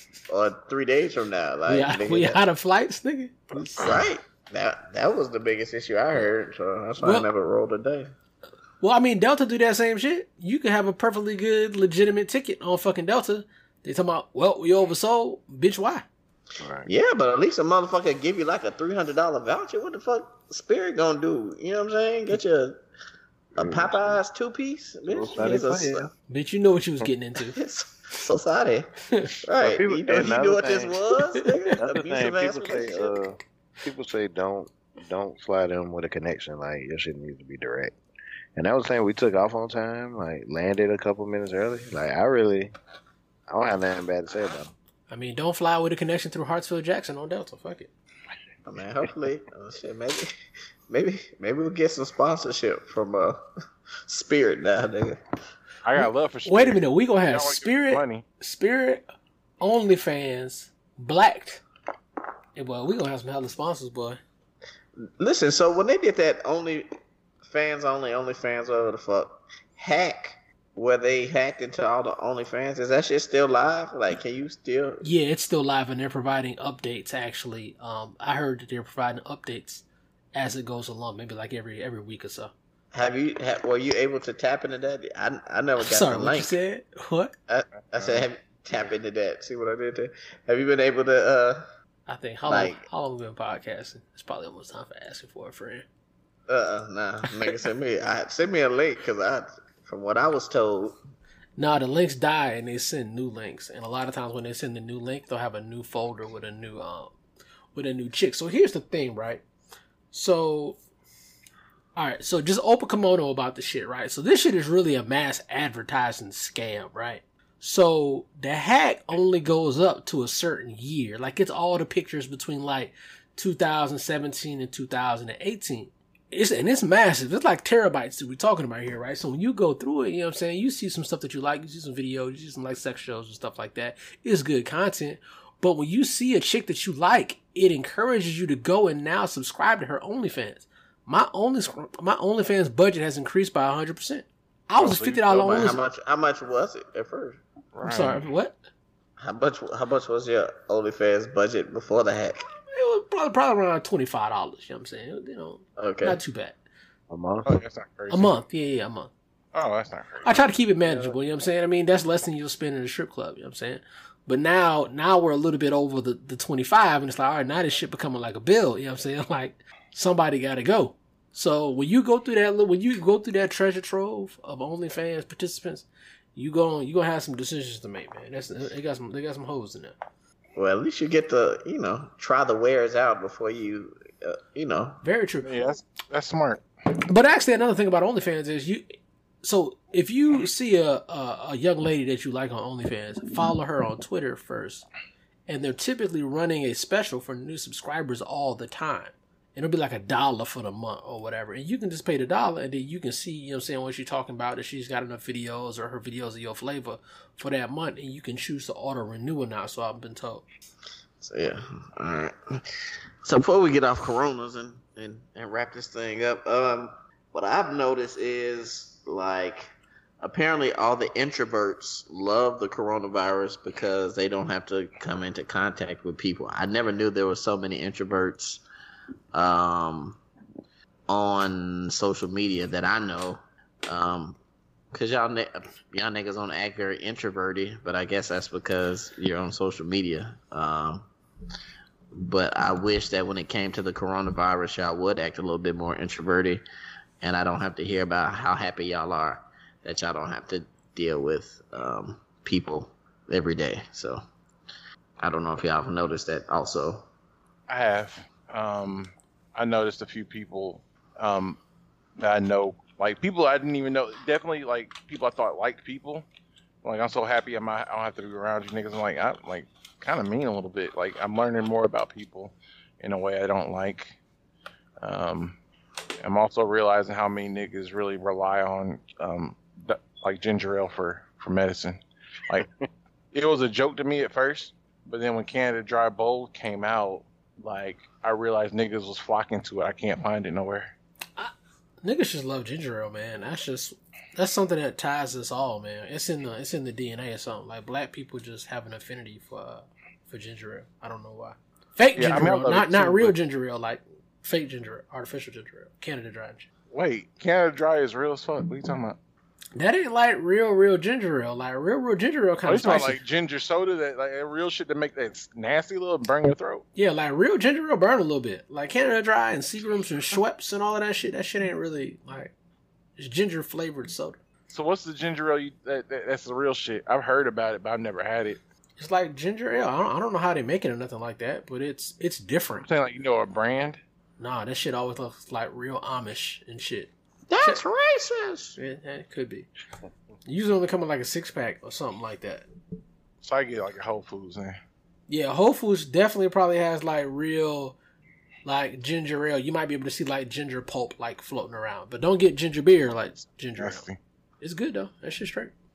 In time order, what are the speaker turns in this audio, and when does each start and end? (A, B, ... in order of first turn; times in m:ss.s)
0:00.3-0:02.4 A
0:01.7-0:04.0 B
0:03.8-0:08.1 A
0:07.0-0:07.3 B
0:08.8-0:16.1 B
0:16.6-0:16.9 C
0:16.9-0:22.8 A
0:23.6-0:24.0 C
0:23.6-0:26.1 A
0:25.1-0:26.1 C
0:26.3-0:27.6 B
0:27.5-0:28.9 A
0:29.4-0:33.2 A
0:29.6-0:31.0 C
0:31.8-0:38.0 C
0:38.6-0:42.7 C
0:43.5-0:44.7 C
0:45.1-0:47.9 B
0:48.7-0:50.3 A
0:50.9-0:53.4 A
0:54.1-0:55.2 A
0:55.8-0:58.2 D
0:56.0-0:59.0 B
0:59.6-1:01.6 B
1:02.6-1:04.2 B
1:05.2-1:06.9 A
1:07.4-1:15.0 A
1:15.0-1:22.5 B
1:22.9-1:26.5 A
1:25.8-1:27.3 B
1:27.5-1:31.6 A
1:28.0-1:28.2 D
1:32.1-1:35.9 B
1:32.5-1:32.9 A
1:36.5-1:41.0 A
1:41.6-1:47.2 B
1:47.8-1:49.4 B
1:50.1-1:50.8 B
1:52.0-2:25.8 B
2:24.8-2:25.8 D
2:25.4-2:27.4 A
2:27.8-2:28.3 D
2:27.8-2:28.6 B
2:29.2-2:32.4 A
2:32.7-2:36.6 B
2:35.8-2:36.2 A
2:37.1-2:37.6 C
2:37.5-2:38.3 D
2:38.1-2:39.1 B
2:39.5-2:40.4 D
2:40.2-3:00.0 B
3:00.6-3:05.0 A
3:05.0-3:05.5 B
3:05.4-3:06.6 D
3:07.1-3:08.8 B
3:09.4-3:14.9 B
3:15.5-3:30.4 B
3:31.2-3:39.7 A
3:40.2-3:48.6 A
3:49.3-3:50.2 A
3:51.1-3:54.4 A
3:54.9-4:01.1 A
4:02.1-4:06.6 A
4:07.2-4:14.2 A
4:15.2-4:17.1 A
4:17.7-4:21.6 D
4:22.2-4:26.3 D
4:26.8-4:34.2 D
4:35.0-4:35.6 D
4:36.2-4:42.7 D
4:43.3-4:50.9 D
4:51.4-5:06.7 B
5:02.2-5:03.3 D
5:06.9-5:09.2 D
5:09.8-5:13.2 B
5:12.7-5:16.9 D
5:17.0-5:22.5 B
5:23.2-5:24.4 B
5:24.7-5:28.6 D
5:29.0-5:32.9 B
5:32.8-5:34.0 D
5:34.4-5:37.1 B
5:37.5-5:38.8 A
5:38.8-5:39.7 B
5:40.5-5:42.7 B
5:43.4-5:44.8 D
5:45.3-5:48.0 B
5:48.6-5:54.1 B
5:53.8-5:54.2 D
5:54.6-5:55.7 B